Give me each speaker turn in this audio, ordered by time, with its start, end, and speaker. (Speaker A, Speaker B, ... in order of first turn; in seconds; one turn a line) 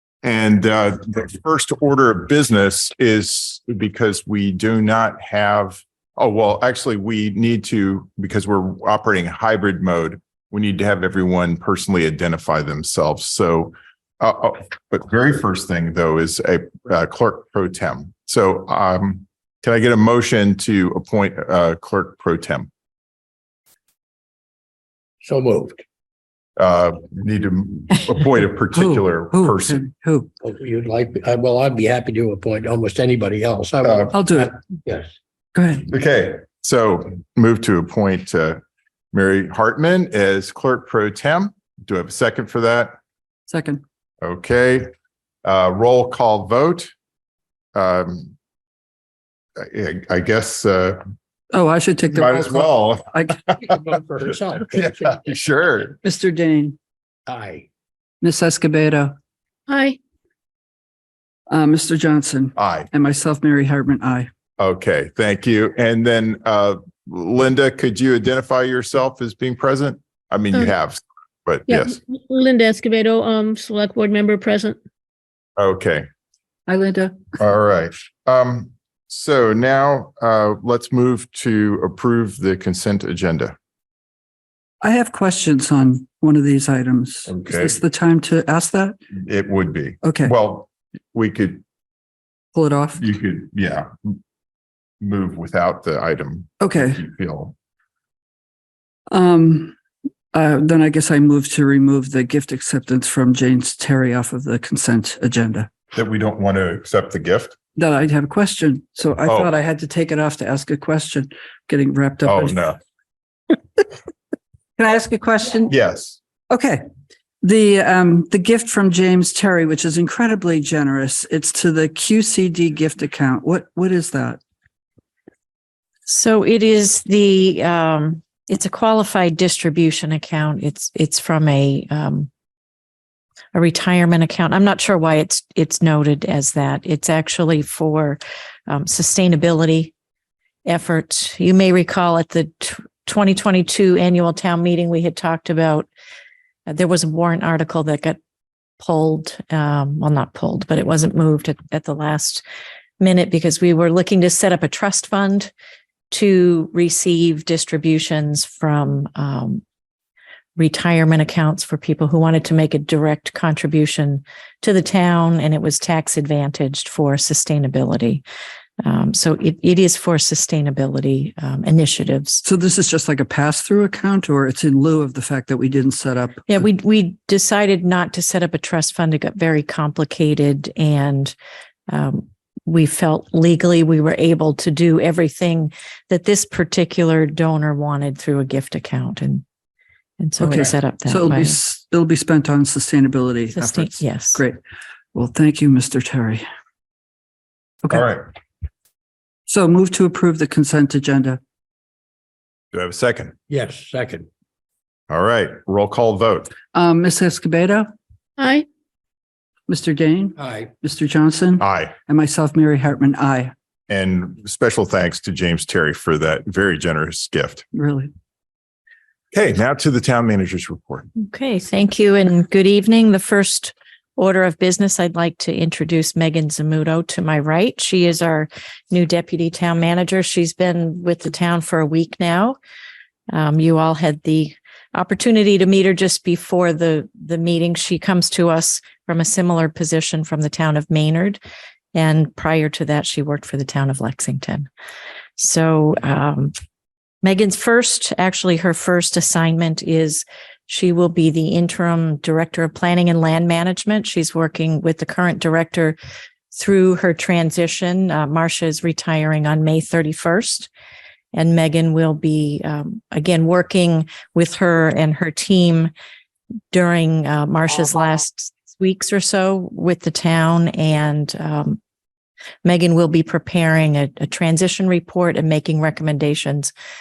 Speaker A: 0.2-22.7
Speaker B: 25.2-25.8
Speaker A: 26.6-29.8
Speaker C: 28.7-30.3
Speaker B: 30.4-35.1
Speaker A: 33.8-34.1
Speaker C: 34.1-34.5
Speaker C: 35.5-35.9
Speaker A: 35.9-38.6
Speaker A: 39.1-43.0
Speaker C: 43.5-43.8
Speaker A: 44.2-44.9
Speaker A: 45.4-46.9
Speaker A: 47.7-48.3
Speaker A: 49.6-51.0
Speaker C: 51.5-53.4
Speaker A: 52.1-53.8
Speaker B: 53.6-55.2
Speaker A: 54.7-56.0
Speaker C: 56.0-56.8
Speaker B: 57.3-57.6
Speaker C: 58.2-59.1
Speaker D: 59.7-60.0
Speaker C: 61.5-64.3
Speaker A: 62.5-62.9
Speaker A: 64.6-71.9
Speaker D: 71.7-74.8
Speaker A: 75.6-76.0
Speaker C: 76.7-77.2
Speaker A: 77.4-83.5
Speaker C: 84.8-89.0
Speaker A: 87.3-87.8
Speaker A: 89.2-91.6
Speaker C: 90.0-90.3
Speaker C: 92.5-93.0
Speaker A: 93.0-94.2
Speaker A: 95.0-97.5
Speaker C: 96.6-97.0
Speaker C: 99.1-99.7
Speaker C: 100.3-105.7
Speaker A: 105.9-107.5
Speaker C: 107.8-112.6
Speaker A: 109.2-109.5
Speaker A: 112.2-112.8
Speaker C: 114.8-115.7
Speaker A: 115.7-116.2
Speaker C: 116.5-116.8
Speaker C: 117.4-124.4
Speaker E: 126.1-132.3
Speaker E: 133.5-139.9
Speaker E: 140.7-145.9
Speaker E: 146.7-148.2
Speaker E: 148.8-152.4
Speaker E: 153.0-155.5
Speaker E: 156.1-159.6
Speaker E: 160.6-168.2
Speaker E: 168.8-172.4
Speaker C: 172.4-176.5
Speaker E: 176.5-181.3
Speaker E: 181.9-189.4
Speaker E: 190.2-191.6
Speaker C: 190.4-194.6
Speaker E: 193.5-194.4
Speaker C: 195.1-196.4
Speaker A: 197.9-198.3
Speaker C: 199.5-201.4
Speaker A: 202.7-203.3
Speaker B: 203.5-204.3
Speaker A: 205.1-206.5
Speaker C: 206.7-207.9
Speaker D: 208.4-208.6
Speaker C: 209.7-213.5
Speaker B: 210.4-210.7
Speaker A: 211.6-211.9
Speaker A: 213.9-217.7
Speaker C: 217.7-218.1
Speaker A: 219.3-221.1
Speaker E: 221.2-232.6
Speaker E: 233.3-241.4
Speaker E: 241.9-244.7
Speaker E: 245.4-246.5
Speaker E: 247.2-256.0
Speaker E: 256.5-260.7
Speaker E: 261.3-265.9
Speaker E: 266.7-271.8
Speaker E: 272.6-276.7